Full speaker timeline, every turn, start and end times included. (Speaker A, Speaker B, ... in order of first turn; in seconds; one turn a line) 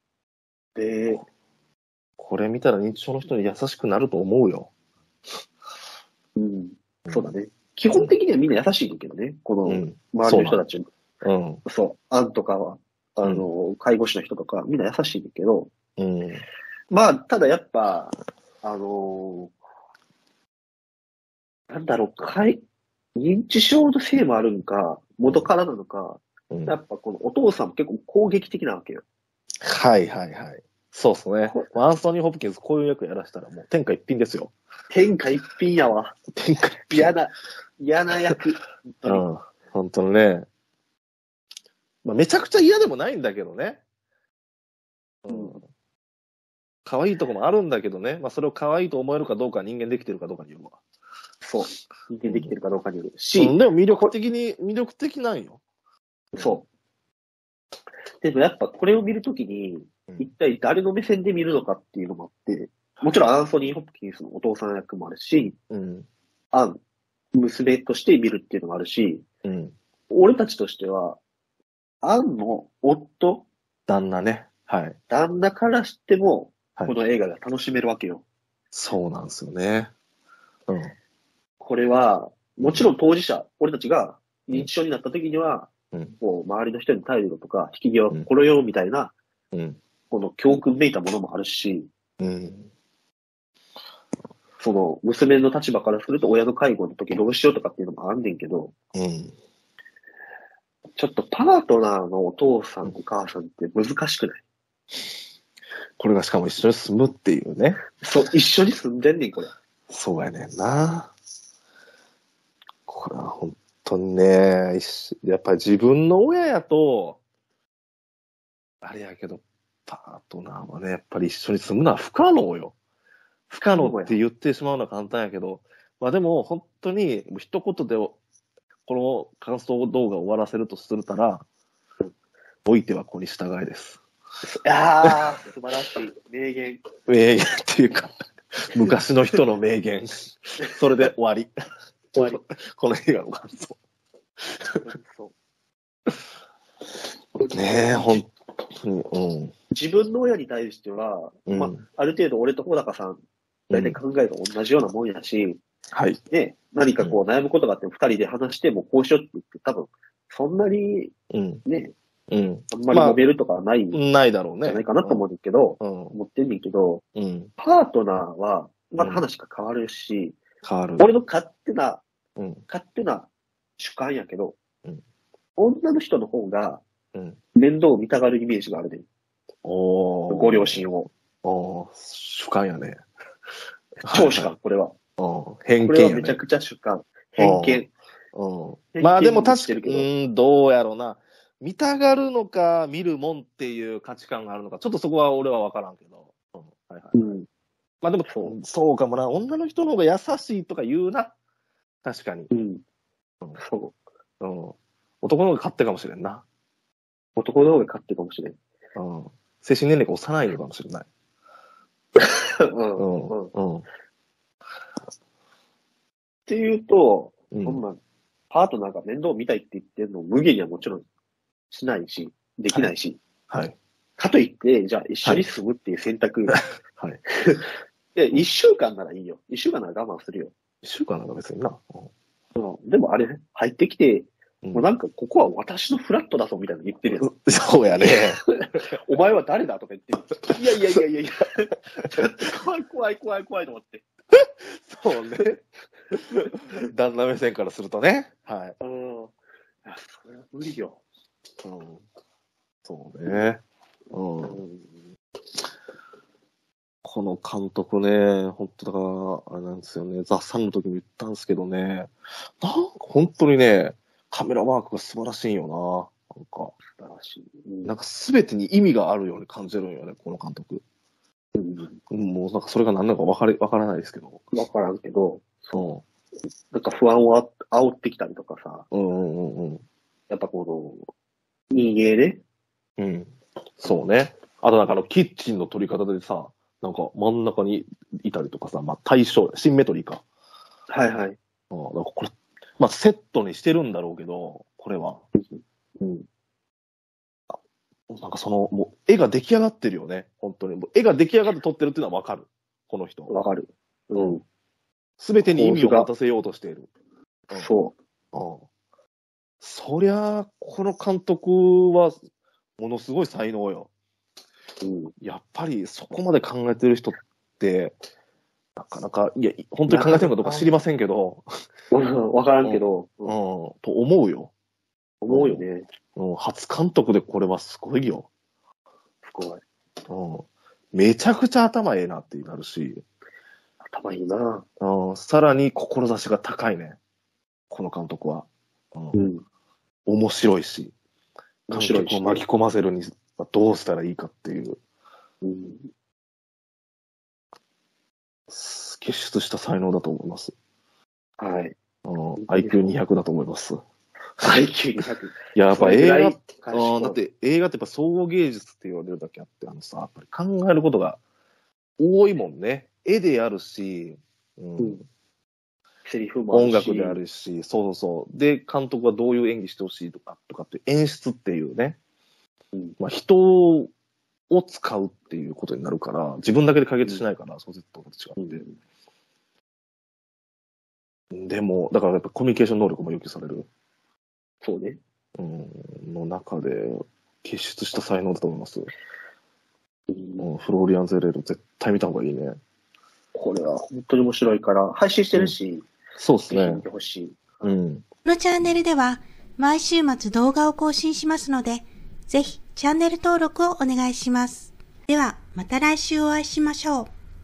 Speaker A: 0.8-1.2
Speaker B: 2.2-4.7
Speaker A: 6.4-10.9
Speaker B: 9.7-10.6
Speaker B: 11.2-11.6
Speaker A: 11.7-15.7
Speaker B: 16.0-16.4
Speaker A: 16.9-19.5
Speaker A: 21.7-22.6
Speaker A: 23.2-29.0
Speaker B: 26.5-26.8
Speaker B: 29.6-34.5
Speaker A: 34.9-36.2
Speaker B: 36.3-37.1
Speaker A: 36.9-39.2
Speaker B: 39.0-40.5
Speaker B: 42.0-43.8
Speaker B: 45.2-45.6
Speaker A: 45.3-45.6
Speaker B: 46.9-50.8
Speaker A: 51.4-53.5
Speaker B: 52.3-52.5
Speaker B: 53.4-55.6
Speaker A: 56.3-56.6
Speaker A: 58.2-65.5
Speaker B: 65.7-66.1
Speaker A: 67.3-69.2
Speaker B: 69.4-69.8
Speaker A: 70.1-71.2
Speaker A: 72.0-73.5
Speaker B: 73.9-75.0
Speaker A: 75.1-78.2
Speaker B: 78.7-79.9
Speaker A: 81.6-89.2
Speaker B: 82.6-82.9
Speaker B: 89.5-89.8
Speaker A: 90.1-91.9
Speaker B: 92.2-92.7
Speaker A: 94.6-98.7
Speaker B: 98.9-99.3
Speaker A: 101.0-104.4
Speaker B: 106.0-107.8
Speaker A: 108.0-109.5
Speaker B: 109.9-111.1
Speaker B: 112.9-117.2
Speaker B: 118.8-122.8
Speaker B: 123.5-128.2
Speaker A: 123.8-124.2
Speaker B: 128.9-131.4
Speaker B: 132.7-134.0
Speaker A: 134.5-136.9
Speaker B: 137.1-141.5
Speaker B: 142.1-143.8
Speaker B: 144.4-144.8
Speaker A: 144.8-145.3
Speaker A: 147.4-148.2
Speaker B: 147.5-149.5
Speaker A: 149.7-153.2
Speaker B: 151.5-151.8
Speaker B: 153.7-154.0
Speaker A: 153.7-155.6
Speaker B: 155.9-156.2
Speaker A: 156.3-161.1
Speaker B: 161.3-161.6
Speaker A: 161.7-161.9
Speaker B: 162.3-163.2
Speaker A: 162.7-164.0
Speaker B: 163.9-165.2
Speaker A: 164.6-167.0
Speaker B: 165.8-166.2
Speaker B: 167.2-167.5
Speaker A: 167.6-170.4
Speaker B: 170.6-171.1
Speaker A: 171.0-172.0
Speaker B: 172.4-172.6
Speaker A: 172.7-173.3
Speaker A: 173.8-174.6
Speaker A: 175.6-176.8
Speaker A: 177.6-179.1
Speaker B: 179.6-180.8
Speaker A: 180.3-181.1
Speaker B: 181.4-183.0
Speaker B: 184.0-184.5
Speaker A: 184.1-184.9
Speaker B: 185.2-186.4
Speaker A: 185.8-187.9
Speaker B: 187.4-197.2
Speaker A: 189.0-190.1
Speaker A: 197.1-197.5
Speaker B: 198.0-201.3
Speaker A: 198.3-198.5
Speaker B: 202.0-202.5
Speaker A: 202.5-202.8
Speaker A: 203.6-203.9
Speaker B: 204.4-206.4
Speaker A: 207.4-208.6
Speaker B: 208.9-211.1
Speaker A: 212.2-213.5
Speaker B: 213.0-213.9
Speaker A: 216.5-218.0
Speaker B: 217.5-217.8
Speaker A: 218.5-221.1
Speaker A: 221.7-223.2
Speaker B: 223.5-223.8
Speaker A: 224.2-226.6
Speaker B: 226.5-227.2
Speaker A: 227.4-230.5
Speaker B: 230.8-232.1
Speaker A: 232.6-237.3
Speaker B: 237.2-238.4
Speaker A: 237.9-244.0
Speaker B: 244.8-248.8
Speaker A: 248.8-249.3
Speaker A: 249.8-251.0
Speaker B: 251.6-252.0
Speaker B: 252.8-253.6
Speaker B: 254.1-254.6
Speaker A: 254.4-254.9
Speaker B: 257.0-266.7
Speaker A: 266.9-267.9
Speaker B: 267.8-270.8
Speaker A: 271.6-272.0
Speaker B: 272.1-274.4
Speaker A: 274.5-275.9
Speaker B: 275.7-276.0
Speaker A: 276.7-278.9
Speaker B: 278.9-279.8
Speaker A: 280.3-281.1
Speaker A: 281.7-282.4
Speaker B: 283.0-290.2
Speaker A: 290.9-291.4
Speaker B: 291.7-295.2
Speaker A: 295.4-296.2
Speaker B: 298.1-303.3
Speaker A: 303.3-304.4
Speaker B: 305.2-306.9
Speaker A: 305.4-306.1
Speaker A: 307.5-307.9
Speaker B: 308.3-308.6
Speaker B: 309.6-312.2
Speaker B: 312.8-313.9
Speaker A: 314.8-315.1
Speaker B: 315.2-318.0
Speaker B: 318.8-321.5
Speaker A: 319.9-320.8
Speaker A: 321.9-323.3
Speaker B: 322.6-324.5
Speaker A: 325.2-325.9
Speaker B: 325.3-325.6
Speaker B: 326.1-328.3
Speaker A: 329.2-329.6
Speaker B: 330.1-333.0
Speaker A: 333.8-334.6
Speaker B: 334.8-337.0
Speaker B: 337.7-339.2
Speaker A: 339.1-339.4
Speaker B: 340.1-340.9
Speaker A: 341.7-342.4
Speaker B: 341.7-344.8
Speaker A: 345.4-345.9
Speaker B: 348.5-350.5
Speaker A: 351.4-351.8
Speaker B: 352.0-353.8
Speaker A: 352.4-353.0
Speaker A: 354.4-357.2
Speaker B: 355.5-361.2
Speaker B: 362.0-365.0
Speaker A: 366.0-367.2
Speaker B: 366.5-372.0
Speaker B: 373.0-373.9
Speaker B: 374.5-378.6
Speaker A: 378.4-378.7
Speaker B: 381.3-383.7
Speaker A: 384.6-385.0
Speaker B: 385.4-388.9
Speaker A: 390.1-390.4
Speaker B: 390.4-392.6
Speaker A: 393.4-395.9
Speaker B: 396.2-396.8
Speaker A: 396.5-397.7
Speaker B: 397.6-398.0
Speaker C: 398.2-407.1